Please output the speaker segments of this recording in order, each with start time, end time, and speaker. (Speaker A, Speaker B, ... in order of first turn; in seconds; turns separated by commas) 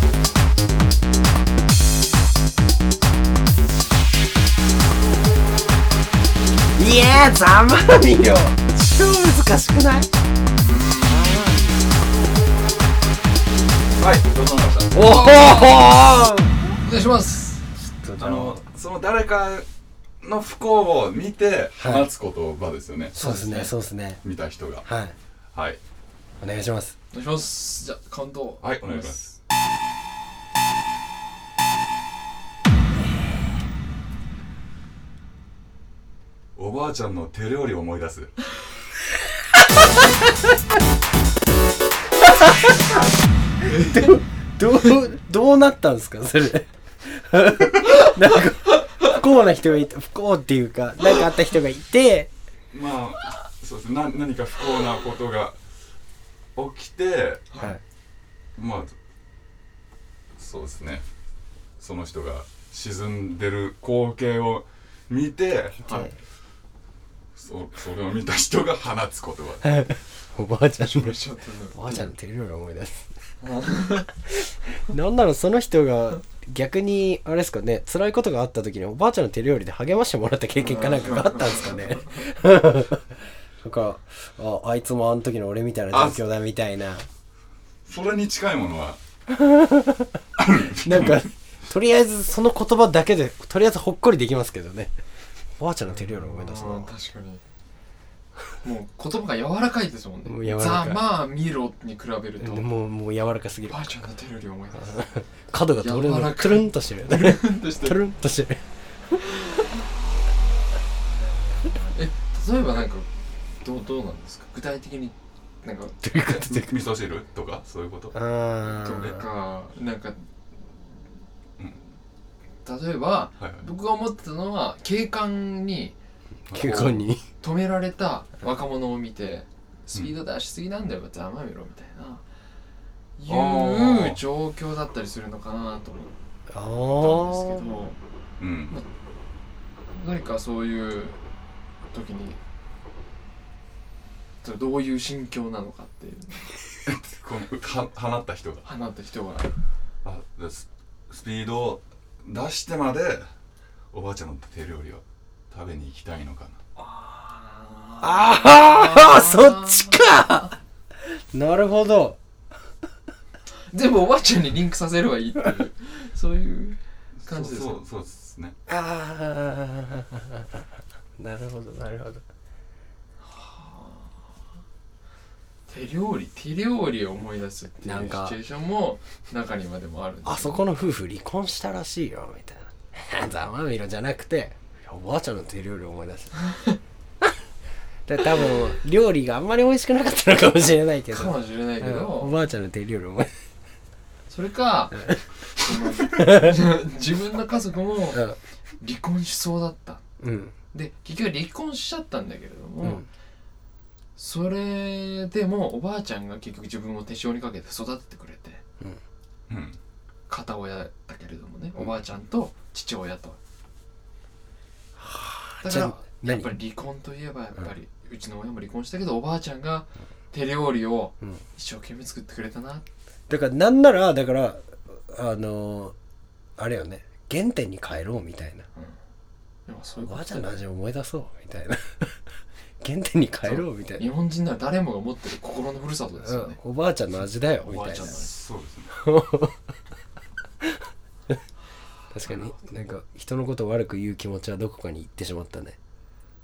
Speaker A: 6.8-10.1, Speaker B: 10.6-11.3, Speaker C: 10.7-11.6, Speaker A: 11.1-11.8, Speaker C: 14.0-15.0, Speaker A: 14.9-16.5, Speaker B: 15.0-15.9, Speaker B: 16.7-17.6, Speaker A: 17.8-18.6, Speaker C: 18.2-19.7, Speaker C: 20.2-23.1, Speaker A: 21.8-22.1, Speaker B: 23.1-23.7, Speaker A: 23.1-24.2, Speaker C: 24.2-24.9, Speaker A: 24.9-25.2, Speaker C: 25.5-25.8, Speaker A: 26.4-26.9, Speaker B: 27.1-29.4, Speaker C: 28.6-29.3, Speaker C: 36.5-38.5, Speaker A: 43.7-52.3, Speaker C: 43.7-44.0, Speaker C: 52.7-55.6, Speaker C: 56.5-57.5, Speaker B: 57.5-57.8, Speaker C: 58.6-59.0, Speaker C: 60.4-61.1, Speaker C: 61.8-65.8, Speaker A: 65.8-66.1, Speaker B: 65.8-66.1, Speaker C: 67.4-69.9, Speaker A: 69.6-71.2, Speaker B: 70.9-72.1, Speaker A: 71.7-73.1, Speaker B: 73.4-74.1, Speaker A: 74.3-83.1, Speaker B: 80.6-82.2, Speaker A: 83.6-87.1, Speaker C: 85.9-86.2, Speaker C: 87.9-89.0, Speaker A: 89.3-90.2, Speaker C: 90.4-91.2, Speaker A: 90.8-94.9, Speaker A: 95.6-96.9, Speaker B: 96.0-97.4, Speaker B: 98.6-102.7, Speaker A: 100.3-101.0, Speaker A: 102.4-103.9, Speaker B: 103.7-105.0, Speaker A: 104.8-109.2, Speaker B: 105.8-108.0, Speaker B: 111.1-113.1, Speaker B: 113.6-116.4, Speaker A: 116.0-116.7, Speaker C: 116.4-118.2, Speaker A: 118.1-119.2, Speaker B: 118.7-120.3, Speaker C: 121.6-121.9, Speaker B: 122.7-126.0, Speaker C: 123.4-123.7, Speaker C: 126.5-127.0, Speaker A: 126.5-127.3, Speaker B: 127.4-132.2, Speaker B: 133.2-136.1, Speaker C: 133.3-134.2, Speaker A: 136.5-137.7, Speaker B: 137.0-138.0, Speaker C: 138.4-138.8, Speaker B: 139.9-141.2, Speaker B: 141.9-142.4, Speaker B: 144.4-146.6, Speaker C: 146.8-148.7, Speaker B: 148.7-149.5, Speaker C: 150.0-153.3, Speaker C: 153.9-156.6, Speaker B: 156.8-160.4, Speaker A: 158.0-160.6, Speaker A: 161.1-162.2, Speaker B: 163.7-167.8, Speaker C: 167.2-168.6, Speaker A: 168.7-170.7, Speaker A: 171.2-172.2, Speaker B: 173.2-174.3, Speaker B: 175.7-180.7, Speaker A: 177.8-178.4, Speaker A: 180.2-186.3, Speaker B: 186.5-186.8, Speaker A: 188.1-193.3, Speaker B: 191.1-192.4, Speaker B: 194.3-198.3, Speaker A: 194.9-196.6, Speaker A: 198.1-198.4, Speaker B: 198.8-200.0, Speaker A: 200.2-200.6, Speaker B: 200.7-203.1, Speaker B: 204.2-208.6, Speaker C: 209.5-209.8, Speaker B: 210.3-213.4, Speaker A: 215.0-216.6, Speaker B: 215.6-222.9, Speaker A: 223.3-225.9, Speaker A: 226.6-228.7, Speaker B: 229.7-230.6, Speaker A: 230.0-232.2, Speaker A: 232.8-234.1, Speaker B: 233.4-236.6, Speaker A: 236.2-238.1, Speaker B: 237.6-238.4, Speaker C: 238.0-238.9, Speaker A: 238.9-239.6, Speaker A: 242.1-245.8